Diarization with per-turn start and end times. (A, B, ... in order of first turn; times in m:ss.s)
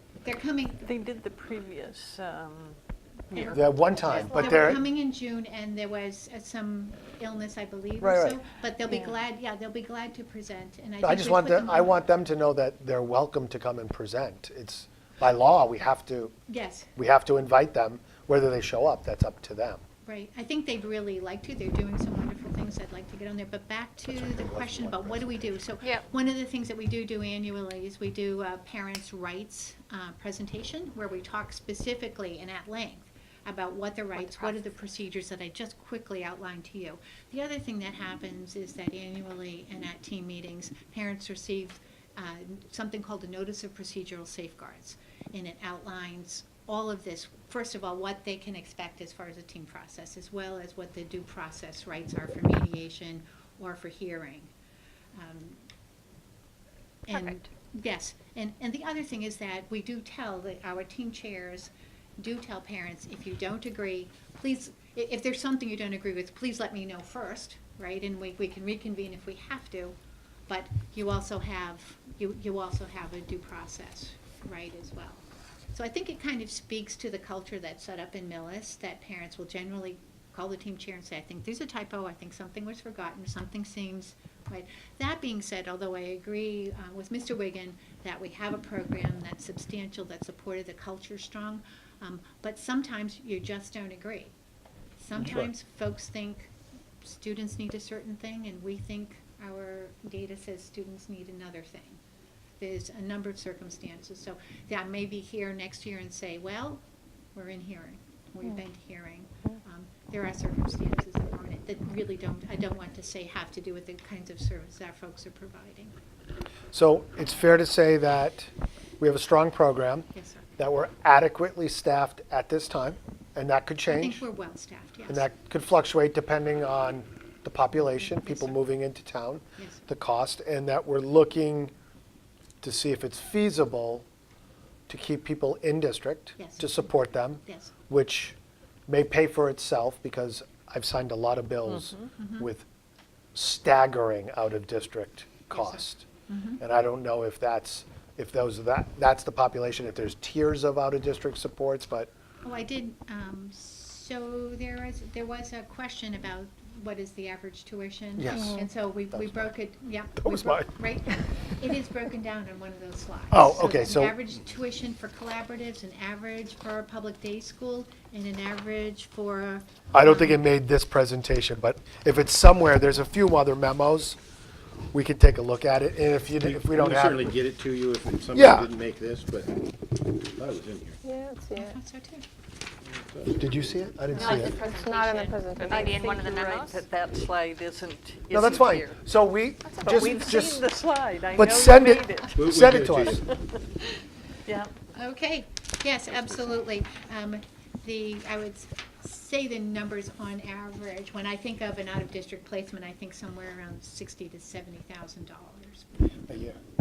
0:00.2-0:00.9 A
0:00.8-0:02.8 B
0:03.3-0:04.6 B
0:03.3-0:12.0 A
0:03.5-0:04.8 C
0:08.0-0:08.4 C
0:11.0-0:16.4 C
0:16.5-0:16.9 A
0:17.0-0:19.8 C
0:20.0-0:54.5 A
0:24.1-0:25.5 C
0:55.1-0:55.6 A
0:57.1-1:10.0 A
1:10.5-1:34.4 A
1:35.0-1:36.5 A
1:35.2-1:35.5 C
1:37.0-1:42.0 A
1:42.6-1:46.8 A
1:47.4-1:55.9 A
1:56.7-1:58.5 C
1:59.0-2:00.1 C
2:00.1-2:00.5 A
2:00.6-2:04.2 C
2:03.9-2:05.3 A
2:05.1-2:11.7 C
2:08.2-2:08.6 A
2:09.6-2:09.8 A
2:12.6-2:14.1 C
2:14.9-2:18.4 C
2:16.4-2:16.8 A
2:17.4-2:17.7 A
2:18.9-2:22.7 C
2:22.2-2:22.5 A
2:23.4-2:26.1 C
2:25.5-2:26.6 A
2:26.6-2:32.1 C
2:32.4-2:50.4 A
2:38.2-2:39.5 C
2:40.2-2:40.7 C
2:43.3-2:44.2 C
2:49.9-2:54.2 C
2:54.9-2:57.2 C
2:56.4-3:01.0 D
2:58.3-2:58.7 C
3:01.0-3:01.8 E
3:01.5-3:02.2 A
3:02.9-3:03.4 D
3:03.4-3:04.6 C
3:04.1-3:06.0 A
3:04.1-3:06.8 E
3:05.6-3:09.0 B
3:08.3-3:10.7 C
3:09.8-3:12.4 B
3:11.3-3:13.2 C
3:12.4-3:13.2 D
3:14.5-3:14.7 B
3:14.9-3:25.9 A
3:26.3-3:26.6 C